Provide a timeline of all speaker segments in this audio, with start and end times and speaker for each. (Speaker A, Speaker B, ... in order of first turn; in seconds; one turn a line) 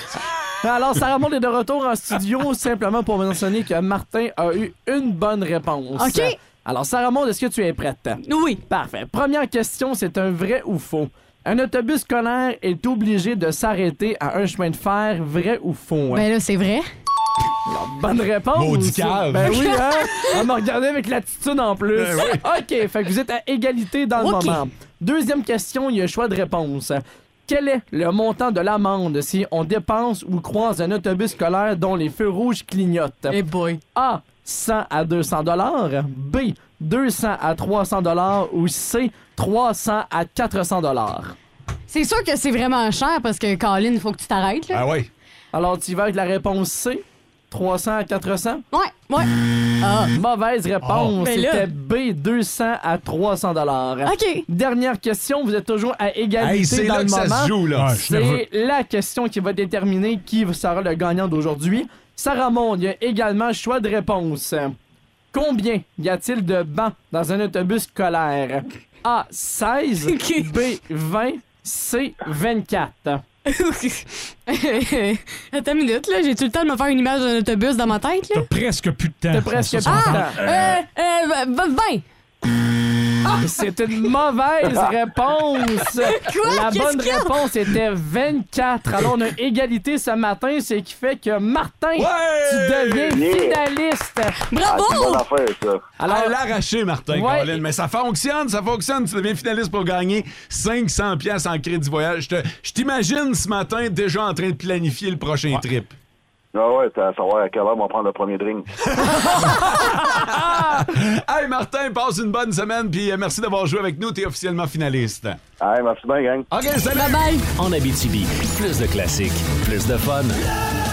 Speaker A: 0.6-16.2
Speaker B: 6.0-6.3
Speaker B: 8.2-8.6
Speaker B: 16.1-16.9
Speaker A: 17.6-33.4
Speaker C: 18.5-19.8
Speaker B: 19.4-20.4
Speaker B: 24.2-24.6
Speaker B: 33.3-33.8
Speaker A: 34.0-41.4
Speaker B: 41.9-44.8
Speaker C: 44.7-45.1
Speaker A: 45.5-48.6
Speaker B: 48.7-49.3
Speaker B: 49.8-50.1
Speaker A: 50.1-64.7
Speaker D: 50.8-51.1
Speaker B: 51.2-51.7
Speaker B: 54.0-54.4
Speaker C: 56.4-58.0
Speaker D: 57.7-58.4
Speaker A: 65.3-73.2
Speaker B: 70.1-70.5
Speaker B: 73.5-78.5
Speaker D: 78.3-80.8
Speaker A: 79.3-80.4
Speaker B: 79.9-82.0
Speaker A: 83.4-94.4
Speaker B: 86.1-87.3
Speaker C: 92.0-93.3
Speaker E: 93.1-93.6
Speaker B: 94.5-95.2
Speaker E: 94.7-95.9
Speaker A: 96.0-96.3
Speaker C: 96.0-106.0
Speaker A: 97.1-97.6
Speaker E: 106.5-108.7
Speaker C: 109.0-115.4
Speaker E: 115.6-116.5
Speaker C: 116.5-117.3
Speaker B: 116.9-117.5
Speaker F: 117.5-120.3